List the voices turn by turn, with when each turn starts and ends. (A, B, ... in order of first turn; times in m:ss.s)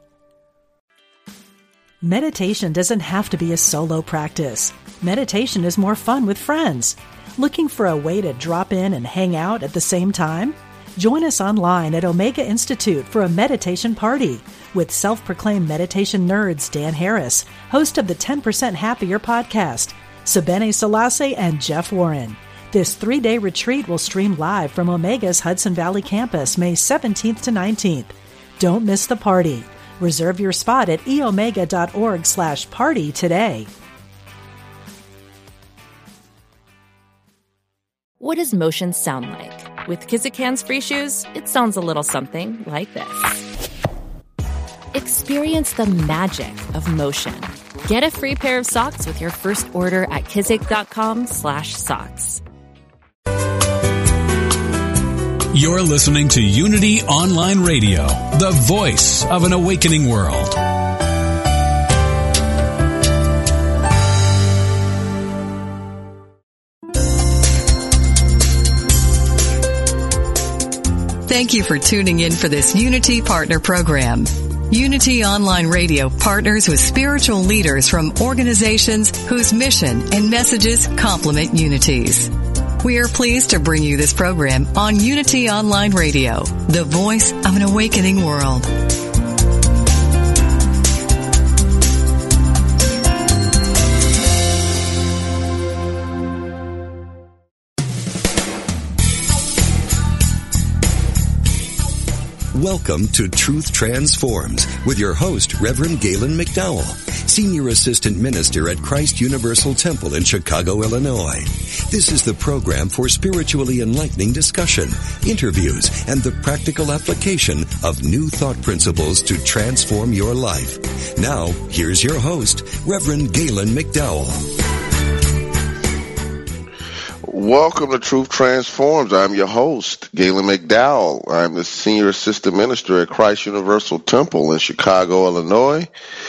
0:02.0-0:33.7 A
0:38.2-0:43.4 B
0:44.9-0:52.4 B
0:55.5-1:00.6 C
1:11.3-1:28.7 D
1:42.5-2:04.4 E
2:07.2-2:15.9 F